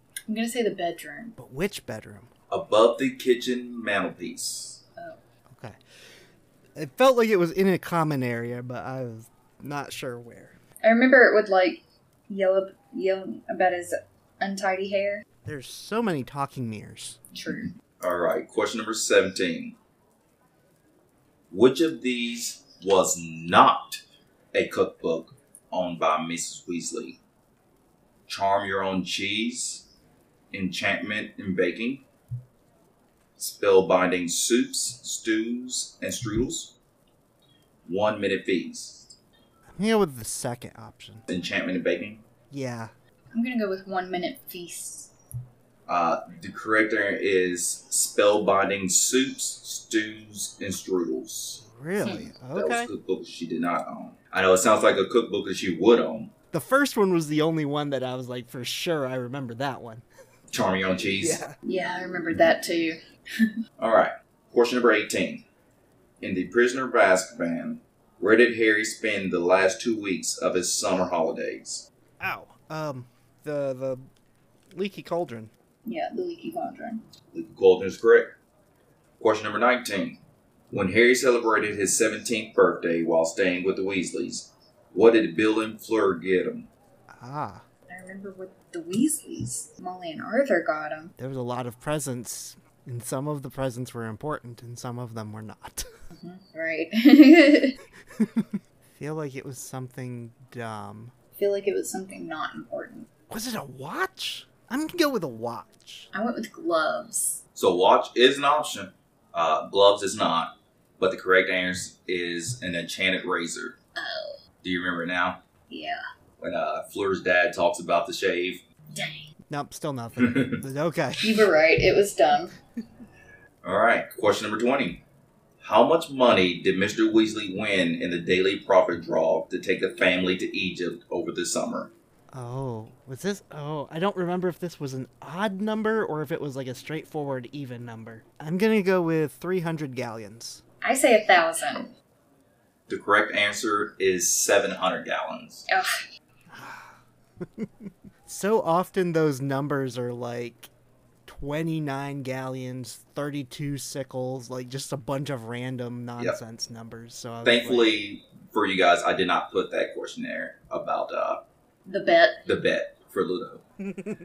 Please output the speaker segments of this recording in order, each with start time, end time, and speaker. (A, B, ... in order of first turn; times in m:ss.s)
0:00.3-0:01.4 A
0:01.4-0:02.3 B
0:02.5-0:04.8 C
0:05.5-0:05.8 B
0:06.8-0:10.6 B
0:10.8-0:15.2 A
0:15.4-0:17.2 B
0:17.3-0:17.7 A
0:18.0-0:19.8 C
0:21.5-0:24.0 C
0:24.5-0:27.2 C
0:28.3-0:29.9 C
0:30.5-0:32.0 C
0:33.4-0:36.8 C
0:37.8-0:39.1 C
0:39.8-0:41.2 B
0:41.3-0:42.2 C
0:42.5-0:42.9 B
0:43.3-0:45.1 A
0:45.9-0:51.6 C
0:51.6-0:52.9 B
0:52.5-0:56.3 C
0:56.5-1:00.0 B
1:00.5-1:01.4 C
1:01.2-1:01.6 B
1:01.6-1:03.5 A
1:03.8-1:05.4 C
1:06.2-1:11.8 C
1:12.2-1:14.0 B
1:14.7-1:15.5 B
1:15.8-1:17.0 A
1:17.3-1:18.3 C
1:19.2-1:20.2 C
1:20.7-1:26.7 C
1:27.1-1:27.6 B
1:27.9-1:31.1 A
1:31.2-1:35.9 B
1:36.1-1:37.8 A
1:38.2-1:41.1 B
1:41.4-1:43.1 A
1:43.3-1:46.1 B
1:46.1-1:47.4 A
1:47.6-1:53.8 C
1:54.0-1:54.4 A
1:54.6-1:55.4 C
1:55.7-1:56.0 A
1:56.4-1:58.6 C
1:58.9-1:59.3 A
1:59.5-2:01.4 B
2:00.2-2:00.6 C
2:01.2-2:02.5 A
2:03.6-2:05.0 C
2:05.6-2:11.9 C
2:12.3-2:20.6 B
2:20.8-2:21.9 A
2:22.9-2:25.6 C
2:25.7-2:26.1 A
2:26.5-2:27.0 B
2:27.6-2:30.7 B
2:31.3-2:37.9 B
2:37.4-2:41.5 C
2:41.9-2:42.4 A
2:42.5-2:43.6 C